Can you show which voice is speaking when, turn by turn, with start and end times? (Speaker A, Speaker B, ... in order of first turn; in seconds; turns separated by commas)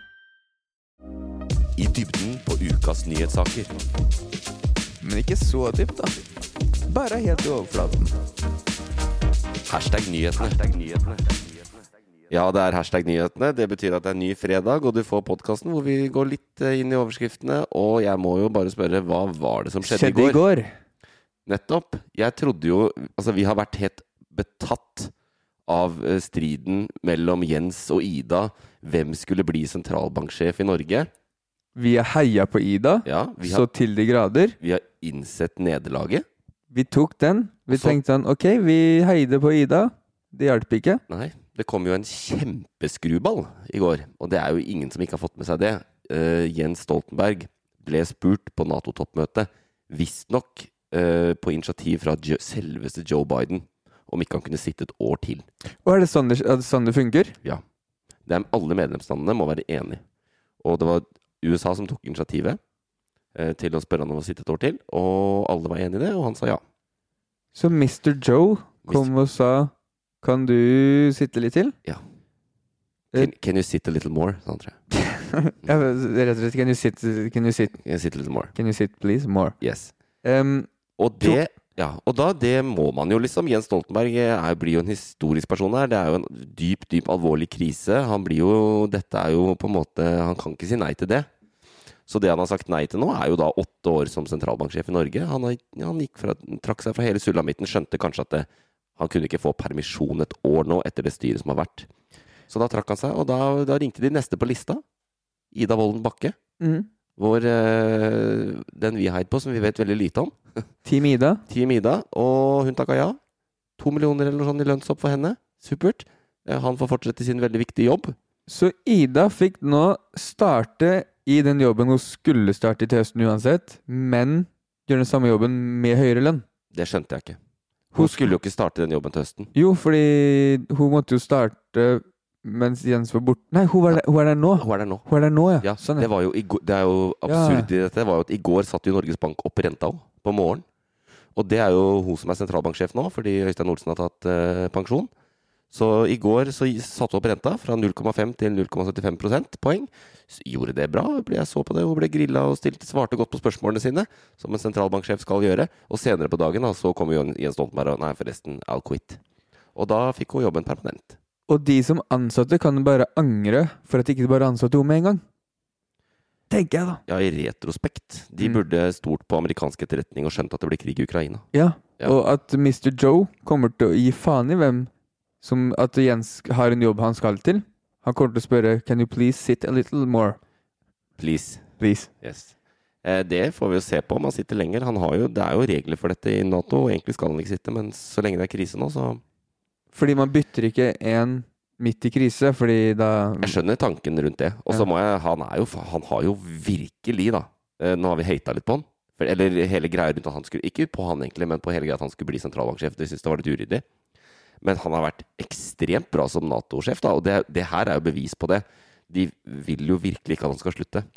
Speaker A: 1.8-3.7, Speaker B: 5.0-6.2, Speaker B: 6.9-8.1, Speaker A: 9.7-11.4, Speaker A: 12.3-20.4, Speaker B: 19.8-20.7, Speaker A: 21.4-25.1, Speaker A: 25.7-31.1, Speaker B: 31.8-34.6, Speaker A: 33.0-33.7, Speaker A: 34.6-36.2, Speaker B: 36.7-41.0, Speaker A: 37.7-38.0, Speaker A: 41.1-55.5, Speaker B: 55.8-57.4, Speaker A: 58.2-60.0, Speaker A: 60.6-62.6, Speaker A: 63.3-66.6, Speaker B: 67.5-69.7, Speaker B: 70.2-71.7, Speaker A: 73.1-74.8, Speaker B: 74.9-77.8, Speaker A: 77.8-78.5, Speaker B: 78.5-79.5, Speaker A: 79.6-79.9, Speaker B: 80.2-80.7, Speaker A: 81.0-91.3, Speaker A: 92.1-101.9, Speaker A: 102.5-104.8, Speaker A: 105.5-106.4, Speaker B: 106.6-106.9, Speaker A: 107.2-110.4, Speaker B: 110.8-111.4, Speaker A: 111.5-113.2, Speaker A: 113.8-118.2, Speaker B: 118.5-126.4, Speaker A: 126.7-127.4, Speaker B: 127.9-128.3, Speaker A: 127.9-129.5, Speaker B: 129.5-136.1, Speaker A: 134.6-135.1, Speaker A: 135.6-140.6, Speaker B: 137.3-137.7, Speaker A: 141.3-145.1, Speaker A: 145.7-159.2, Speaker A: 159.8-161.2, Speaker B: 161.5-165.2, Speaker B: 166.5-167.0, Speaker A: 167.1-171.4, Speaker B: 171.5-174.9, Speaker B: 175.4-180.4, Speaker A: 181.2-189.2, Speaker B: 181.8-182.1, Speaker B: 189.9-193.6, Speaker A: 193.4-203.8, Speaker A: 204.6-211.1